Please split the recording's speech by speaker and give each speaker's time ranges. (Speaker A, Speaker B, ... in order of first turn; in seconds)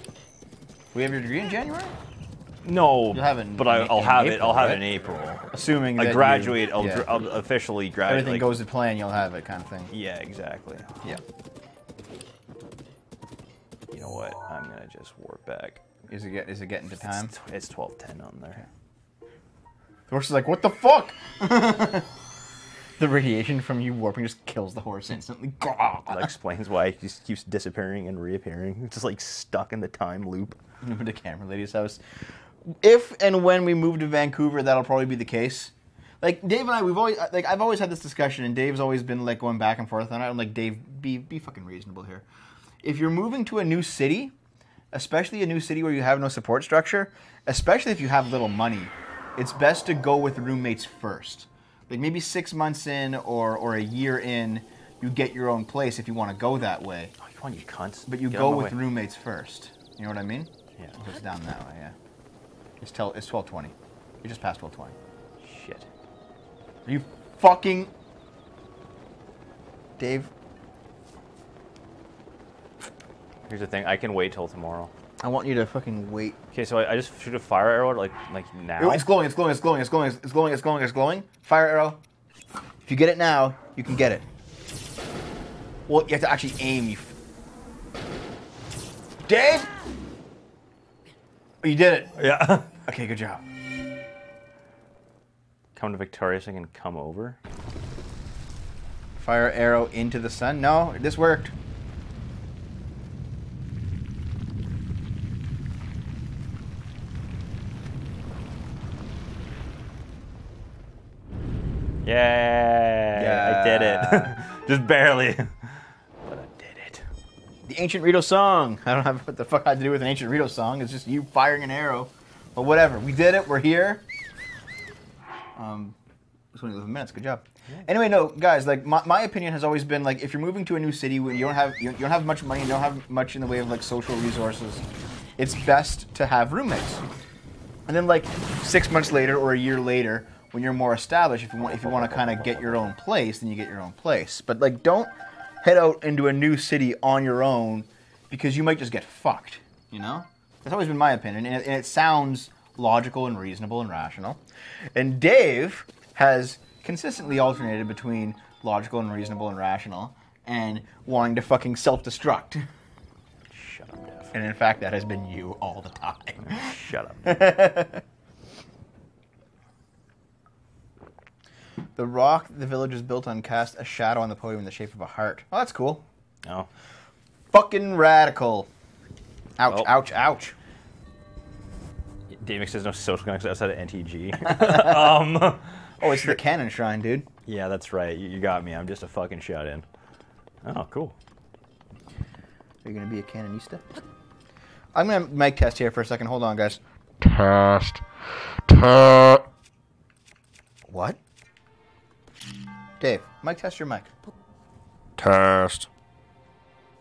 Speaker A: 0.9-2.0, 3.1-4.9, 5.5-7.1, 8.1-9.9, 16.1-17.3, 20.1-22.1, 23.0-26.3, 30.8-32.0, 32.6-42.3, 42.8-44.3, 44.9-57.1, 58.1-62.0, 62.8-65.0, 66.9-67.9, 70.0-70.3, 75.2-76.4, 78.8-82.0, 82.9-84.2, 85.9-87.2, 89.3-89.7, 91.6-92.1, 92.9-93.4, 99.2-101.5, 113.2-114.3, 117.6-124.0, 125.6-126.0, 126.5-134.8, 135.4-137.0, 137.9-154.4, 154.9-162.6, 164.3-166.7, 167.2-168.0, 172.0-176.0, 177.5-178.7, 179.6-180.6, 184.4-185.2, 186.0-187.3, 192.8-193.8, 194.9-196.8, 200.9-201.2, 203.0-204.1
Speaker B: 2.6-8.6, 9.9-11.1, 13.9-15.9, 16.9-18.6, 26.1-30.6, 57.2-58.8, 65.4-65.9, 73.5-74.9, 76.5-79.1, 92.2-92.7, 95.8-97.4, 112.0-117.1, 141.9-142.8, 163.5-164.3, 166.4-167.5, 182.3-186.4, 187.5-189.8, 190.6-191.2
Speaker C: 197.2-198.0, 198.7-199.4, 205.2-205.9